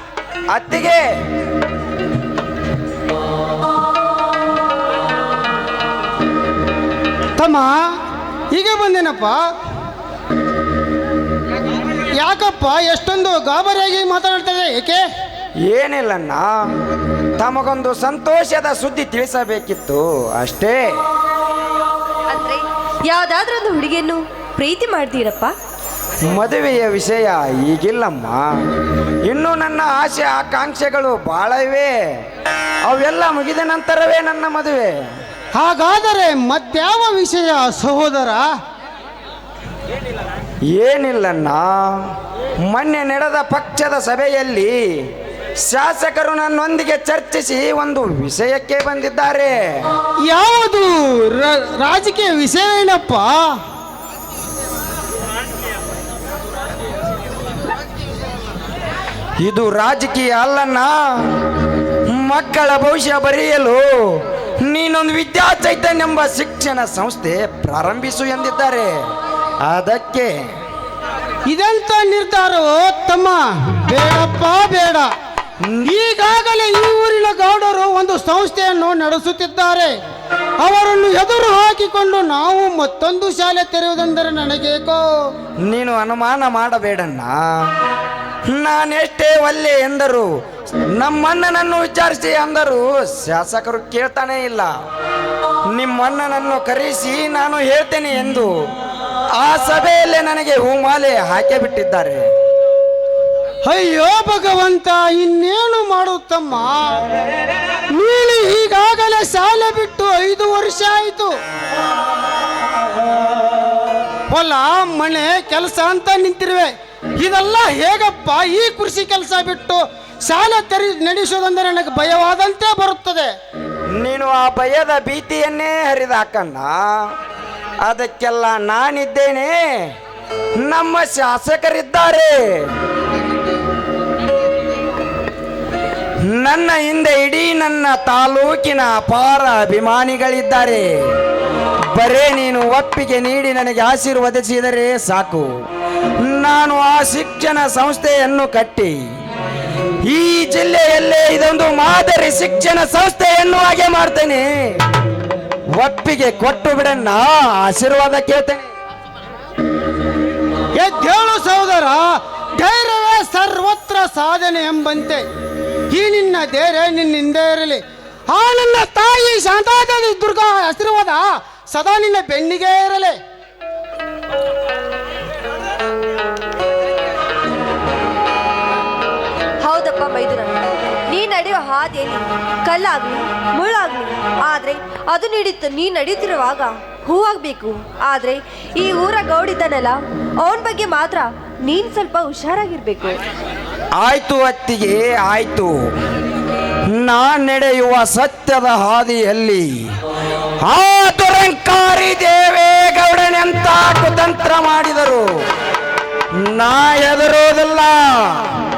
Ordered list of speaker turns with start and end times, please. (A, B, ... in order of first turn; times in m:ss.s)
0:00.5-0:01.0 A
0:07.4-0:07.8 B
0:08.5-0:09.4 B
0:12.2-0:15.0 B
0:15.7-0:16.5 A
0:17.4-0:20.9 A
0:22.3-0:25.5 C
0:26.3-0:28.5 A
0:29.3-0:32.0 A
0:32.9-0:35.0 A
0:35.6-0:38.5 B
0:40.7-0:42.1 A
0:42.6-0:45.1 A
0:45.6-0:49.6 A
0:50.3-0:53.5 B
0:59.4-1:01.3 A
1:02.1-1:08.9 A
1:09.7-1:10.4 A
1:11.5-1:15.1 B
1:15.7-1:15.9 A
1:15.8-1:20.0 B
1:20.6-1:25.0 B
1:25.7-1:27.4 A
1:28.5-1:30.3 A
1:31.0-1:34.7 A
1:35.7-1:38.5 A
1:39.4-1:42.2 A
1:43.7-1:47.0 B
1:47.9-1:51.3 B
1:54.3-2:03.3 B
2:04.0-2:07.1 A
2:07.8-2:09.9 A
2:10.6-2:12.7 A
2:16.3-2:20.9 A
2:21.9-2:25.5 A
2:26.2-2:29.0 A
2:30.0-2:34.5 A
2:35.8-2:38.7 A
2:40.8-2:45.2 B
2:45.9-2:53.2 B
2:59.6-3:13.2 C
3:14.0-3:15.8 A
3:16.9-3:19.7 A
3:20.7-3:25.3 A
3:26.4-3:28.5 A